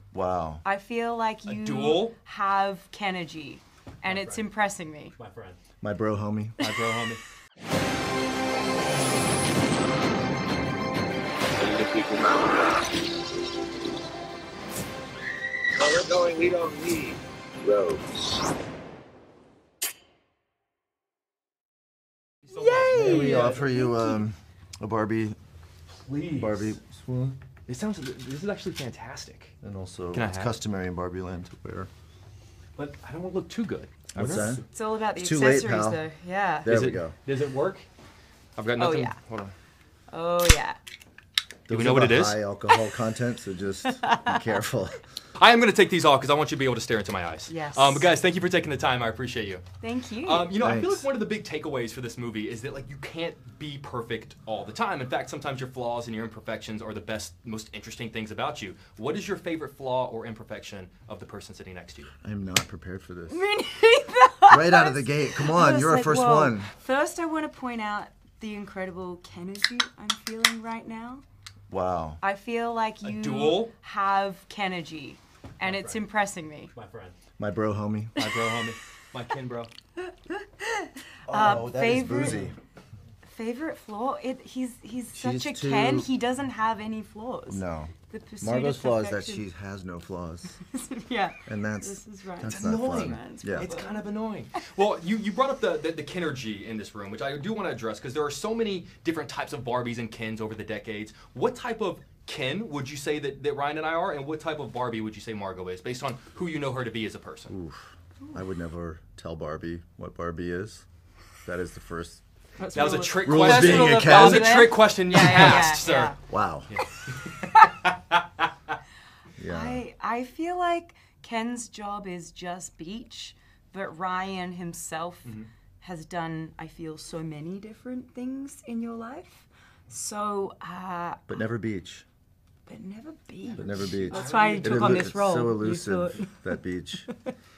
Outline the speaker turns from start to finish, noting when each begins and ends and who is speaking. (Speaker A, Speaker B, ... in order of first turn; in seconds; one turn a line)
Speaker A: 0.1-0.6
Speaker B: 0.7-5.2
Speaker C: 1.5-2.1
Speaker C: 4.0-4.4
Speaker C: 5.2-5.6
Speaker A: 5.8-6.6
Speaker C: 6.6-7.2
Speaker D: 11.6-12.8
Speaker D: 15.8-18.0
Speaker C: 22.5-23.9
Speaker B: 22.5-24.2
Speaker A: 22.9-25.4
Speaker C: 26.0-26.8
Speaker A: 26.4-27.4
Speaker C: 27.7-29.6
Speaker A: 29.6-31.9
Speaker C: 30.1-30.5
Speaker C: 32.8-34.6
Speaker A: 34.1-36.0
Speaker B: 34.7-36.8
Speaker A: 36.6-37.2
Speaker C: 36.7-37.9
Speaker C: 38.6-39.5
Speaker B: 38.8-39.2
Speaker B: 40.1-40.8
Speaker A: 41.7-45.0
Speaker C: 41.7-42.4
Speaker B: 44.1-44.3
Speaker C: 45.4-49.6
Speaker B: 47.5-48.1
Speaker B: 49.8-50.5
Speaker C: 50.2-62.1
Speaker A: 50.6-51.1
Speaker A: 62.2-63.5
Speaker B: 63.3-71.2
Speaker A: 64.5-66.7
Speaker A: 71.7-72.2
Speaker B: 72.2-76.7
Speaker C: 73.0-73.7
Speaker C: 75.6-76.0
Speaker C: 76.7-77.2
Speaker A: 77.4-78.2
Speaker C: 78.2-79.7
Speaker B: 80.3-82.5
Speaker A: 81.3-82.5
Speaker B: 83.2-89.4
Speaker A: 85.1-86.1
Speaker A: 87.5-90.6
Speaker B: 90.7-94.1
Speaker A: 91.5-93.7
Speaker C: 92.4-107.5
Speaker A: 107.5-110.9
Speaker A: 111.5-112.2
Speaker B: 112.6-116.2
Speaker C: 112.7-118.5
Speaker A: 113.2-114.7
Speaker A: 116.3-116.8
Speaker A: 119.4-119.8
Speaker B: 119.5-131.3
Speaker A: 131.3-132.1
Speaker B: 132.7-136.4
Speaker A: 133.6-137.1
Speaker C: 133.9-135.1